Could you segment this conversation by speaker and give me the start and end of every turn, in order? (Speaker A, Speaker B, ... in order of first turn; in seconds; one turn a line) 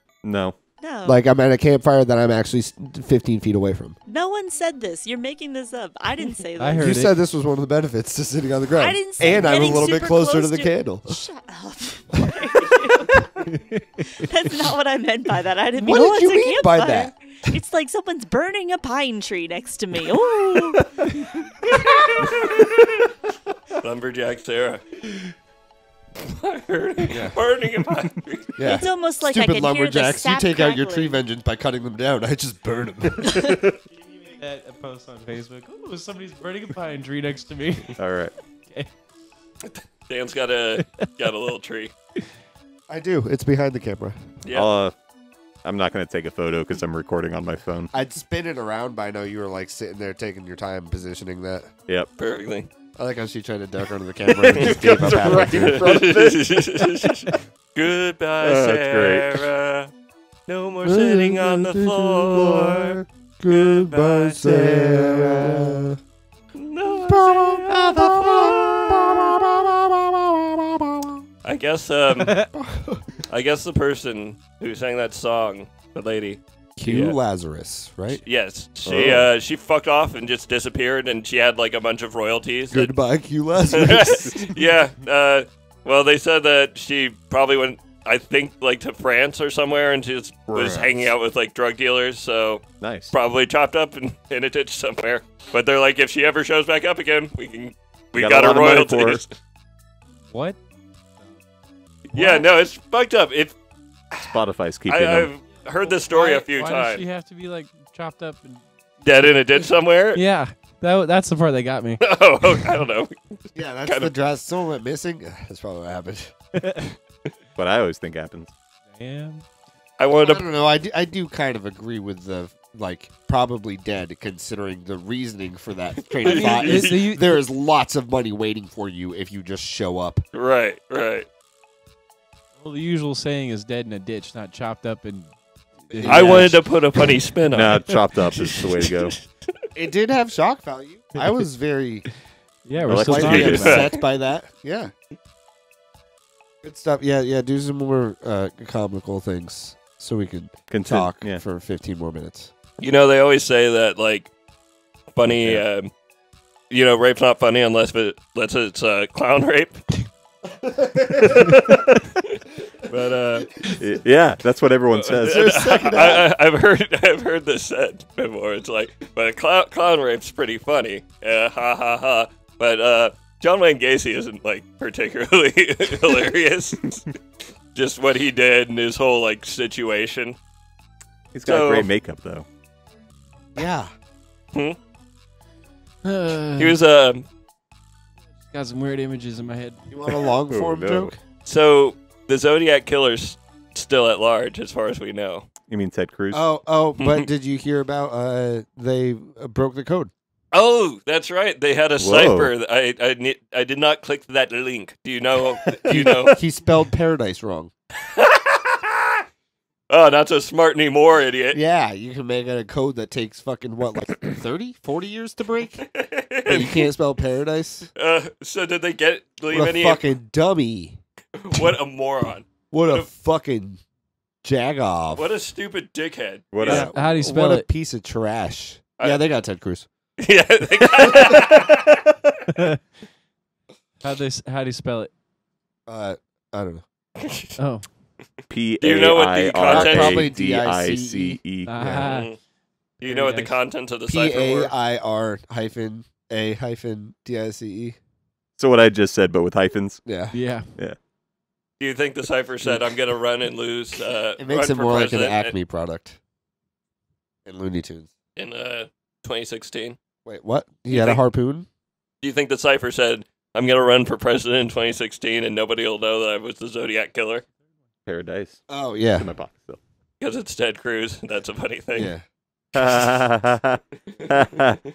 Speaker A: 0.2-0.6
Speaker B: 0.8-1.2
Speaker C: 1.0-4.0
Speaker B: 4.1-7.0
Speaker D: 6.6-7.2
Speaker C: 6.8-11.2
Speaker B: 8.8-13.5
Speaker D: 13.5-13.8
Speaker B: 14.0-21.0
Speaker C: 15.8-17.6
Speaker A: 20.5-20.8
Speaker E: 22.2-22.8
Speaker E: 23.7-24.8
Speaker E: 26.2-28.7
Speaker C: 27.1-27.4
Speaker C: 28.6-33.5
Speaker B: 28.6-31.2
Speaker D: 34.0-38.0
Speaker A: 38.0-38.3
Speaker E: 39.7-41.9
Speaker D: 40.8-41.0
Speaker C: 42.9-44.3
Speaker E: 44.4-44.7
Speaker A: 44.5-44.9
Speaker A: 45.6-47.9
Speaker C: 47.9-51.7
Speaker E: 52.2-52.7
Speaker C: 53.0-56.1
Speaker A: 54.3-57.1
Speaker E: 54.6-59.9
Speaker A: 58.4-59.5
Speaker E: 60.5-64.7
Speaker C: 60.8-62.4
Speaker A: 62.3-63.0
Speaker C: 63.4-66.0
Speaker A: 64.8-65.4
Speaker E: 66.5-67.9
Speaker C: 67.1-71.2
Speaker A: 67.7-69.3
Speaker E: 71.4-72.5
Speaker D: 72.2-72.5
Speaker C: 72.5-73.0
Speaker E: 73.3-77.2
Speaker C: 76.8-78.2
Speaker E: 78.1-82.9
Speaker A: 78.8-79.3
Speaker C: 82.7-84.3
Speaker E: 83.7-99.3
Speaker A: 84.2-84.5
Speaker A: 90.5-90.9
Speaker A: 92.8-93.1
Speaker A: 98.1-99.2
Speaker D: 100.3-100.6
Speaker D: 102.1-102.4
Speaker E: 102.1-103.5
Speaker A: 104.2-105.3
Speaker E: 104.9-107.0
Speaker D: 105.7-108.7
Speaker E: 109.0-110.2
Speaker D: 110.1-112.0
Speaker E: 112.0-114.1
Speaker C: 113.5-116.9
Speaker D: 116.5-116.8
Speaker A: 117.5-118.5
Speaker D: 118.9-119.4
Speaker E: 120.0-120.4
Speaker C: 120.2-130.2
Speaker E: 126.1-127.0
Speaker D: 126.2-127.4
Speaker E: 130.3-131.3
Speaker D: 132.6-135.3
Speaker C: 135.9-136.6
Speaker D: 135.9-136.6
Speaker E: 136.1-137.9
Speaker A: 137.5-139.2
Speaker E: 138.4-139.2
Speaker C: 139.7-142.0
Speaker D: 142.7-143.9
Speaker A: 142.8-143.8
Speaker C: 142.9-144.9
Speaker E: 143.2-144.0
Speaker C: 146.6-152.5
Speaker A: 150.7-151.4
Speaker E: 152.8-154.3
Speaker E: 155.1-155.9
Speaker A: 155.3-155.6
Speaker E: 156.7-159.9
Speaker C: 160.6-161.5
Speaker A: 161.2-162.1
Speaker E: 162.8-163.7
Speaker A: 163.8-166.3
Speaker E: 164.9-177.1
Speaker C: 165.8-166.2
Speaker E: 177.7-180.3
Speaker A: 181.3-182.4
Speaker E: 181.4-181.9
Speaker C: 183.6-183.9
Speaker D: 186.0-186.8
Speaker E: 186.6-187.2
Speaker D: 188.5-189.8
Speaker C: 189.9-191.2
Speaker A: 190.5-191.1
Speaker E: 191.4-195.5
Speaker A: 195.7-196.4
Speaker C: 196.3-200.1
Speaker E: 197.0-197.3
Speaker E: 200.5-206.4
Speaker A: 202.0-202.5
Speaker C: 205.7-207.7
Speaker E: 208.0-209.2
Speaker E: 209.9-211.6
Speaker C: 211.5-215.8
Speaker E: 215.8-216.9
Speaker C: 216.4-217.9
Speaker E: 217.9-220.0
Speaker C: 219.5-221.0
Speaker E: 221.3-223.1
Speaker C: 222.7-223.8
Speaker C: 224.4-225.3
Speaker E: 225.2-226.8
Speaker A: 226.5-226.9
Speaker D: 226.6-227.7
Speaker C: 226.6-229.9
Speaker E: 230.2-232.0
Speaker D: 232.5-232.8
Speaker D: 234.0-235.1
Speaker C: 235.9-236.8
Speaker E: 237.2-237.5
Speaker D: 237.6-237.9
Speaker A: 238.5-242.0
Speaker E: 238.8-240.3
Speaker C: 239.6-242.0
Speaker D: 241.7-242.3
Speaker E: 242.0-242.4
Speaker E: 243.0-244.7
Speaker D: 243.0-243.6
Speaker C: 244.1-248.0
Speaker A: 248.6-250.0
Speaker C: 250.0-250.3
Speaker D: 250.3-250.7
Speaker E: 251.8-255.5
Speaker C: 254.4-256.2
Speaker C: 257.4-258.1
Speaker E: 258.4-260.0
Speaker C: 260.2-261.7
Speaker E: 260.9-261.2
Speaker E: 262.2-267.4
Speaker A: 268.1-269.8
Speaker C: 268.7-269.3
Speaker E: 270.2-272.1
Speaker C: 271.9-272.2
Speaker A: 272.7-274.8